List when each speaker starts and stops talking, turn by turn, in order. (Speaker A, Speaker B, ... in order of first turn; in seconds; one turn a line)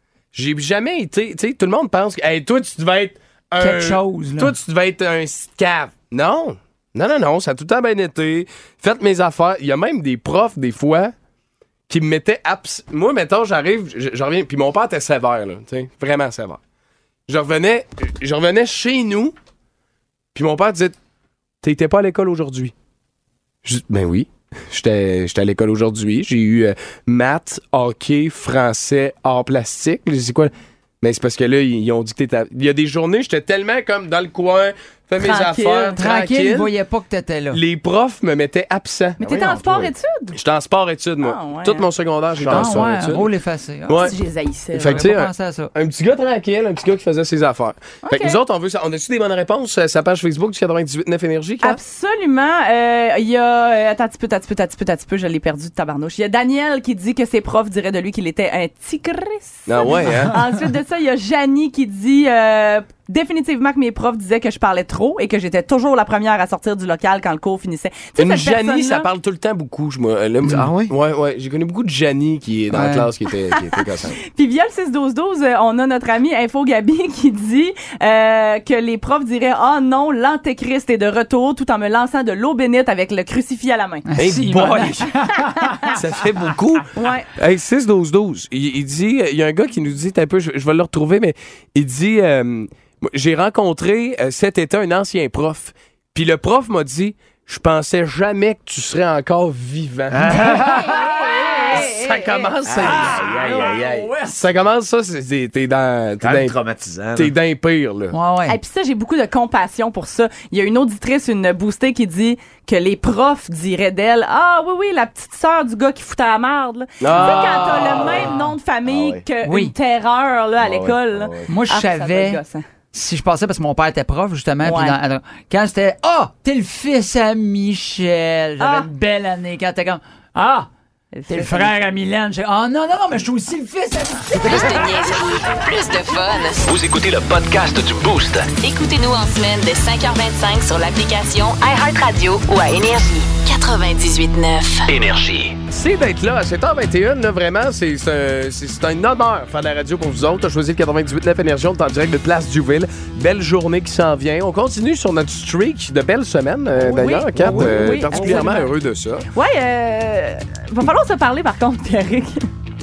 Speaker A: 0.3-11.1
Speaker B: 3.6-4.5
Speaker A: 11.9-16.6
Speaker A: 17.3-19.4
Speaker A: 20.3-21.0
Speaker A: 21.6-22.7
Speaker A: 23.6-36.7
Speaker C: 35.2-36.0
Speaker B: 36.0-37.6
Speaker A: 37.5-39.2
Speaker D: 39.2-39.9
Speaker C: 39.2-40.4
Speaker A: 40.3-43.3
Speaker C: 41.2-41.9
Speaker D: 42.4-42.8
Speaker B: 42.5-44.1
Speaker A: 43.9-44.1
Speaker C: 44.0-45.0
Speaker A: 44.7-51.8
Speaker B: 44.8-45.7
Speaker C: 48.0-48.4
Speaker C: 51.6-69.1
Speaker A: 59.7-60.4
Speaker A: 68.2-74.2
Speaker D: 70.4-70.9
Speaker B: 72.7-73.1
Speaker C: 73.5-84.1
Speaker B: 84.1-86.0
Speaker A: 84.2-85.1
Speaker A: 85.9-101.0
Speaker C: 87.0-87.3
Speaker D: 100.1-100.8
Speaker B: 100.6-101.6
Speaker C: 100.9-102.5
Speaker A: 101.7-103.2
Speaker D: 102.7-104.2
Speaker B: 102.8-104.3
Speaker A: 104.2-106.5
Speaker D: 106.2-107.3
Speaker A: 107.2-108.2
Speaker B: 108.1-108.6
Speaker C: 108.5-122.6
Speaker A: 117.0-118.2
Speaker D: 117.8-118.2
Speaker D: 118.9-119.2
Speaker B: 119.4-119.7
Speaker D: 120.6-121.5
Speaker B: 121.5-122.4
Speaker B: 122.9-130.7
Speaker C: 124.6-125.0
Speaker C: 128.6-128.9
Speaker C: 131.1-131.7
Speaker B: 131.3-134.7
Speaker E: 134.4-136.7
Speaker F: 136.6-138.6
Speaker E: 138.6-144.9
Speaker F: 144.9-145.6
Speaker A: 145.7-159.2
Speaker C: 156.9-158.7
Speaker B: 157.3-158.6
Speaker C: 159.3-162.5